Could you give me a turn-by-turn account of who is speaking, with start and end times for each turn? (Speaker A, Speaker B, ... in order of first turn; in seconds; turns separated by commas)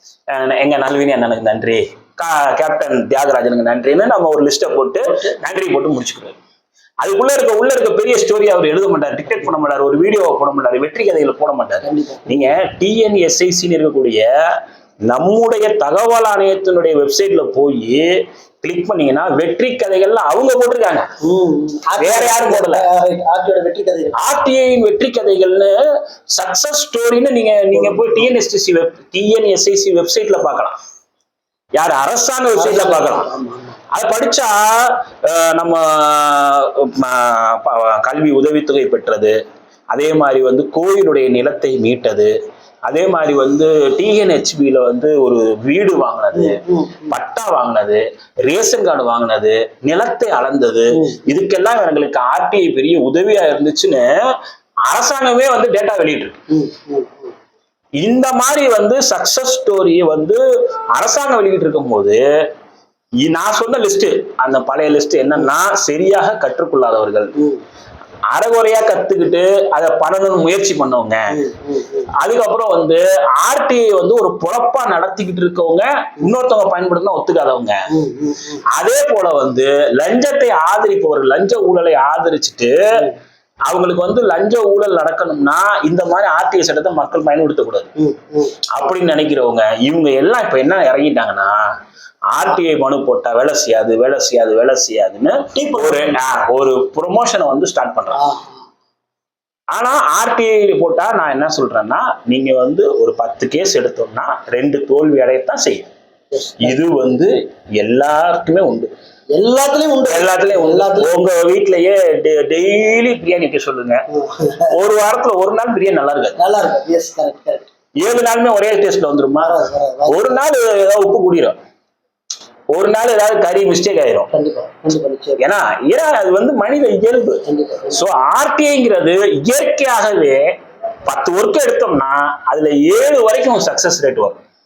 Speaker A: 0.3-6.4, Speaker B: 5.0-5.3, Speaker A: 7.0-21.1, Speaker B: 11.8-12.4, Speaker B: 21.2-24.3, Speaker A: 22.0-22.9, Speaker A: 24.2-25.8, Speaker A: 26.3-30.8, Speaker B: 27.7-28.3, Speaker A: 31.7-33.3, Speaker B: 32.5-33.8, Speaker A: 33.9-39.4, Speaker A: 39.9-42.3, Speaker A: 42.9-54.3, Speaker B: 46.3-47.2, Speaker B: 50.9-51.3, Speaker A: 54.9-56.4, Speaker B: 56.5-57.3, Speaker A: 58.0-60.4, Speaker A: 60.9-62.2, Speaker A: 63.2-67.3, Speaker B: 67.3-67.6, Speaker A: 68.3-71.2, Speaker B: 71.3-72.1, Speaker A: 72.2-77.8, Speaker B: 77.9-78.6, Speaker A: 78.7-83.0, Speaker A: 83.7-87.9, Speaker B: 88.0-88.7, Speaker A: 88.7-91.6, Speaker A: 92.3-98.2, Speaker B: 95.5-96.2, Speaker B: 98.1-98.6, Speaker A: 99.7-105.9, Speaker B: 106.3-106.8, Speaker A: 106.6-108.9, Speaker B: 109.3-111.1, Speaker A: 110.1-114.0, Speaker B: 114.1-114.7, Speaker A: 114.7-116.4, Speaker B: 116.4-117.7, Speaker A: 118.0-121.6, Speaker B: 119.4-120.4, Speaker A: 122.7-124.3, Speaker B: 124.3-125.4, Speaker A: 125.4-134.4, Speaker B: 127.4-128.0